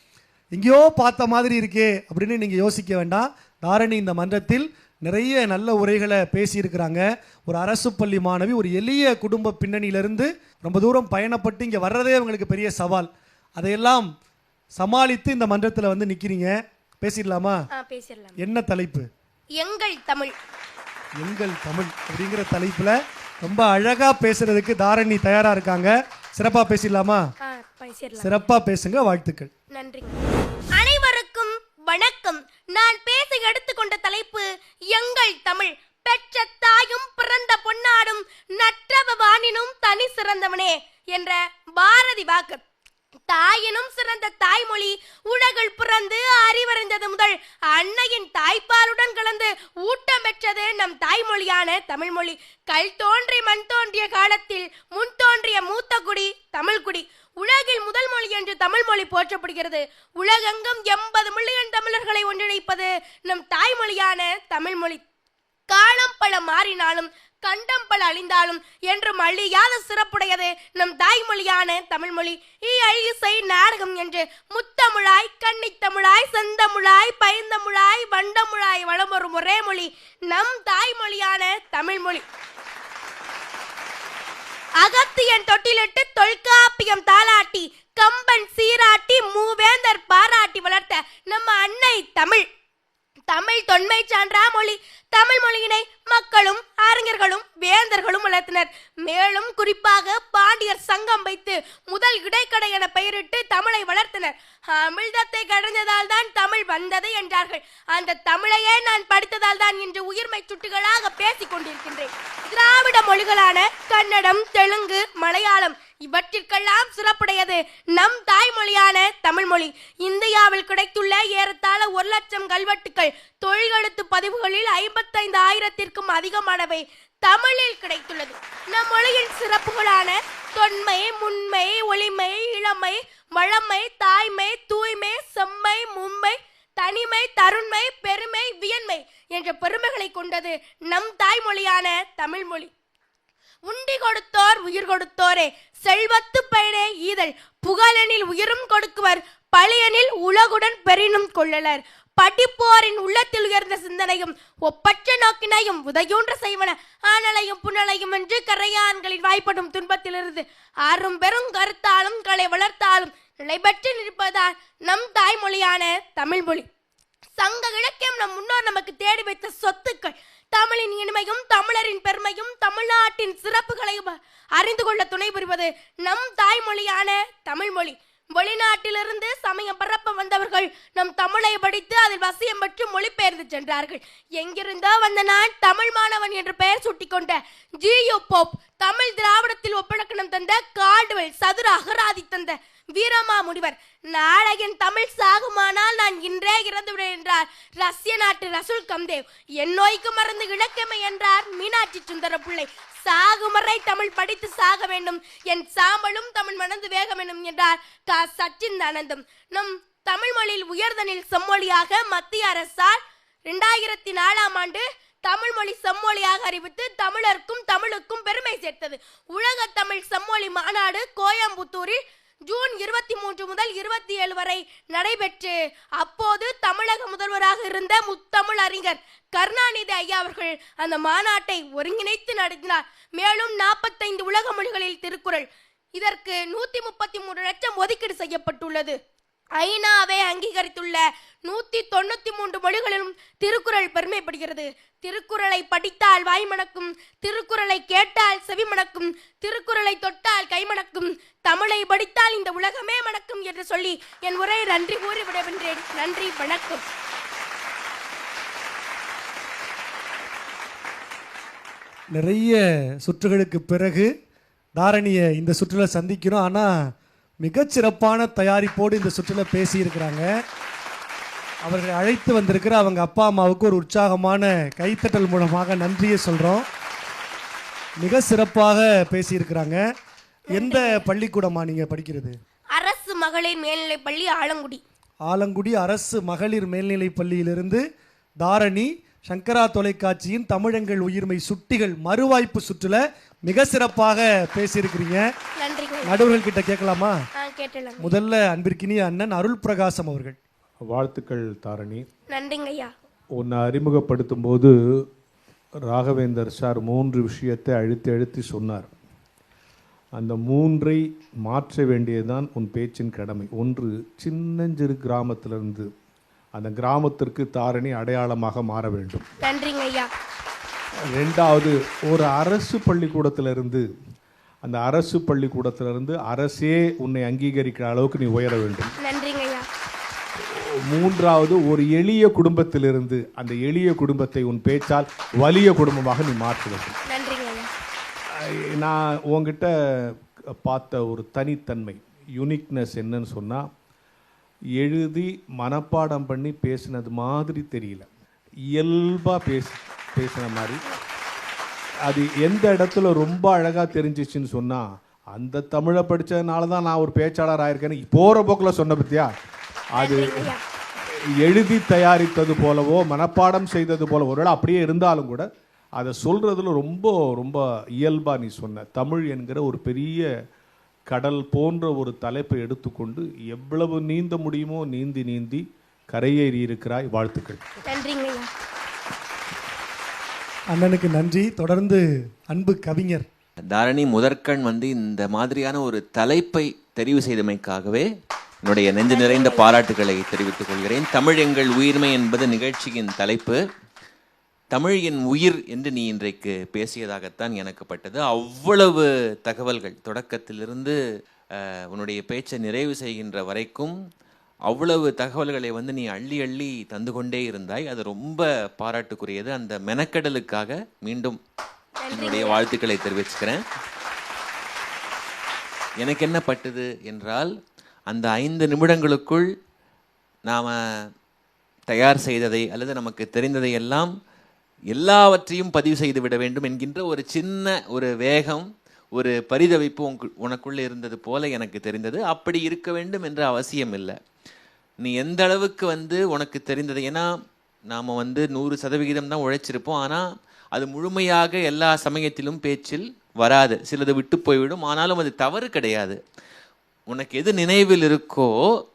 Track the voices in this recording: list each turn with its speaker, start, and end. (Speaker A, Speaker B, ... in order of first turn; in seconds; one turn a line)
Speaker A: 0.5-14.1
Speaker A: 14.8-17.6
Speaker B: 17.7-18.4
Speaker A: 18.4-19.1
Speaker B: 19.6-20.3
Speaker A: 21.2-27.2
Speaker B: 27.4-28.3
Speaker A: 28.2-29.5
Speaker B: 29.7-30.2
Speaker B: 30.8-42.6
Speaker B: 43.3-65.0
Speaker B: 65.7-82.2
Speaker B: 84.8-92.4
Speaker B: 93.3-142.7
Speaker B: 143.7-166.7
Speaker B: 167.4-238.9
Speaker B: 239.6-256.8
Speaker A: 262.1-264.1
Speaker A: 264.8-266.7
Speaker A: 267.4-270.3
Speaker A: 271.6-276.6
Speaker A: 278.0-279.8
Speaker A: 280.5-282.4
Speaker B: 280.6-281.0
Speaker B: 282.7-284.8
Speaker A: 285.2-287.8
Speaker A: 288.4-295.2
Speaker B: 295.6-296.2
Speaker A: 296.0-297.1
Speaker B: 297.4-298.1
Speaker A: 298.0-300.4
Speaker C: 300.9-302.0
Speaker B: 302.3-302.9
Speaker C: 303.4-304.7
Speaker C: 305.9-308.9
Speaker C: 310.1-315.9
Speaker C: 316.6-319.2
Speaker B: 319.4-320.1
Speaker C: 321.1-323.9
Speaker C: 324.6-328.9
Speaker B: 329.0-329.7
Speaker C: 330.4-336.9
Speaker B: 337.1-337.7
Speaker C: 338.3-343.6
Speaker C: 344.8-348.1
Speaker C: 348.7-350.8
Speaker C: 352.1-359.3
Speaker C: 359.9-360.5
Speaker B: 360.0-360.6
Speaker C: 361.1-365.4
Speaker C: 366.0-370.3
Speaker C: 371.1-377.6
Speaker B: 377.9-378.5
Speaker A: 380.7-383.2
Speaker D: 383.7-388.1
Speaker D: 388.6-393.6
Speaker B: 389.0-389.7
Speaker D: 394.7-401.0
Speaker D: 401.6-403.9
Speaker D: 404.7-411.4
Speaker B: 412.0-412.6
Speaker D: 412.1-413.6
Speaker D: 416.0-417.5
Speaker D: 418.1-419.5
Speaker D: 420.5-420.8
Speaker D: 421.9-424.1
Speaker D: 424.9-434.2
Speaker D: 435.0-437.3
Speaker D: 437.9-446.2
Speaker D: 447.1-448.6